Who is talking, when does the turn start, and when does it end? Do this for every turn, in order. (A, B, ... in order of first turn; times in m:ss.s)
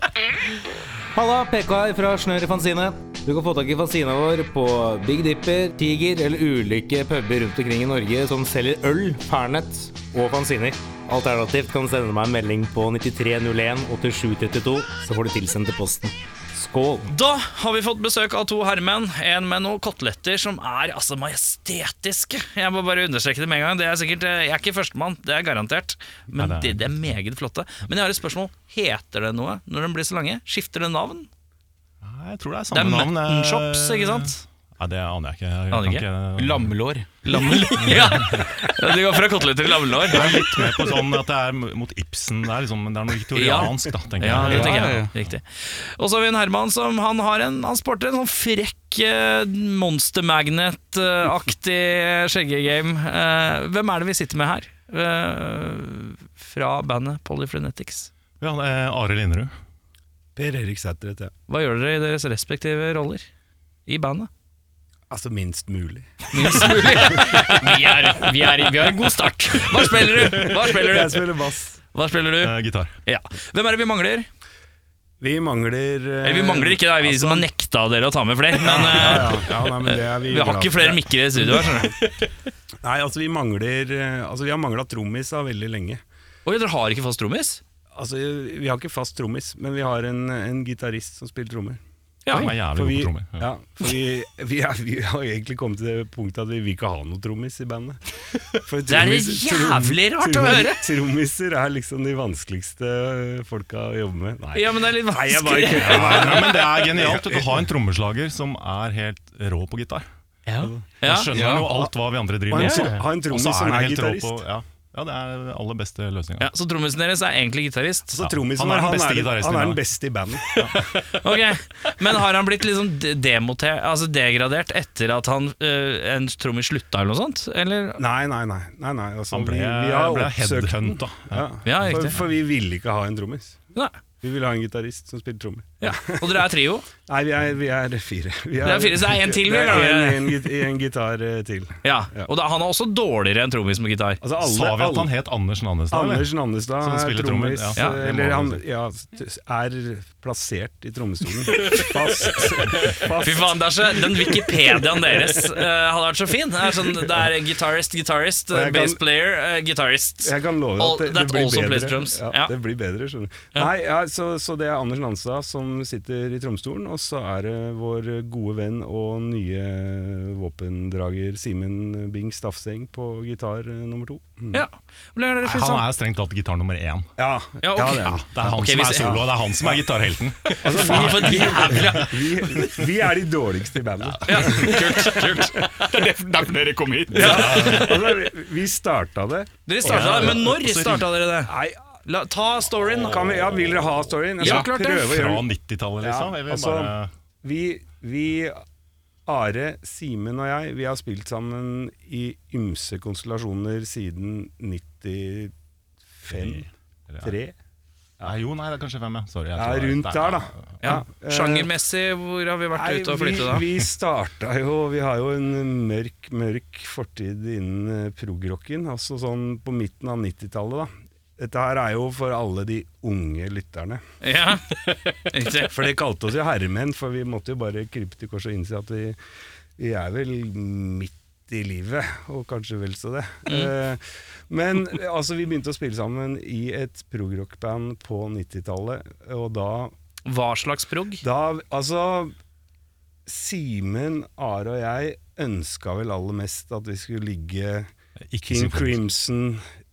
0:01.1-0:17.1 A
0:17.1-0:31.3 B
0:26.4-0:27.1 C
0:32.0-0:36.7 C
0:32.7-0:34.4 B
0:35.7-0:36.1 B
0:36.4-0:37.1 D
0:37.2-0:40.4 B
0:37.3-0:38.5 E
0:37.7-0:38.5 C
0:40.1-0:45.0 C
0:43.3-0:58.1 B
0:44.4-0:45.1 D
0:58.4-0:59.5 C
1:00.4-1:01.3 F
1:01.5-1:03.3 B
1:03.9-1:04.3 B
1:05.1-1:07.4 F
1:06.3-1:08.3 B
1:07.2-1:10.0 E
1:09.5-1:11.4 B
1:10.0-1:11.8 F
1:11.9-1:12.6 B
1:12.4-1:12.9 C
1:13.1-1:14.3 B
1:15.2-1:17.5 F
1:16.2-1:22.0 B
1:18.6-1:21.9 F
1:22.8-1:26.0 F
1:26.4-1:27.6 B
1:28.0-1:31.8 F
1:32.2-1:32.5 B
1:32.3-1:33.5 C
1:32.6-1:47.7 F
1:38.9-1:40.9 B
1:44.5-1:46.5 B
1:45.7-1:50.1 C
1:50.5-1:50.7 E
1:50.6-1:51.9 F
1:51.0-1:51.3 B
1:51.0-1:56.5 C
1:51.3-1:51.7 D
1:52.5-1:54.4 F
1:52.6-1:53.0 E
1:56.4-1:58.2 B
1:58.1-2:00.9 F
1:58.2-1:59.8 C
2:00.5-2:00.9 C
2:01.1-2:08.0 B
2:08.0-2:13.6 F
2:09.3-2:12.2 C
2:11.6-2:12.2 B
2:14.2-2:16.5 F
2:15.8-2:16.9 B
2:17.0-2:22.3 F
2:18.6-2:20.5 B
2:21.8-2:24.2 B
2:24.2-2:25.1 F
2:24.4-2:28.6 C
2:25.9-2:35.5 F
2:33.2-2:42.5 B
2:38.5-2:39.0 F
2:40.2-2:54.6 F
2:54.5-2:55.9 B
2:55.4-2:57.1 C
2:57.2-2:59.8 F
2:57.6-2:59.2 B
2:58.0-3:02.1 C
3:00.6-3:05.8 F
3:00.6-3:02.4 B
3:04.3-3:05.7 B
3:05.7-3:07.6 D
3:07.1-3:10.6 F
3:07.2-3:08.1 C
3:07.4-3:07.9 B
3:09.7-3:11.5 B
3:09.8-3:11.1 C
3:11.5-3:11.8 F
3:12.0-3:13.4 B
3:12.7-3:18.6 F
3:14.4-3:15.2 B
3:15.0-3:17.1 C
3:19.3-3:25.5 F
3:26.2-3:26.7 F
3:26.3-3:27.4 C
3:27.2-3:27.6 F
3:28.2-3:30.8 C
3:29.6-3:31.7 F
3:30.8-3:33.7 B
3:32.8-3:44.0 F
3:44.2-3:45.9 B
3:45.6-3:49.2 F
3:49.8-3:59.9 F
3:53.5-3:53.7 B
4:00.3-4:01.2 B
4:01.2-4:02.3 F
4:03.3-4:07.9 F
4:08.3-4:09.0 C
4:08.4-4:09.6 F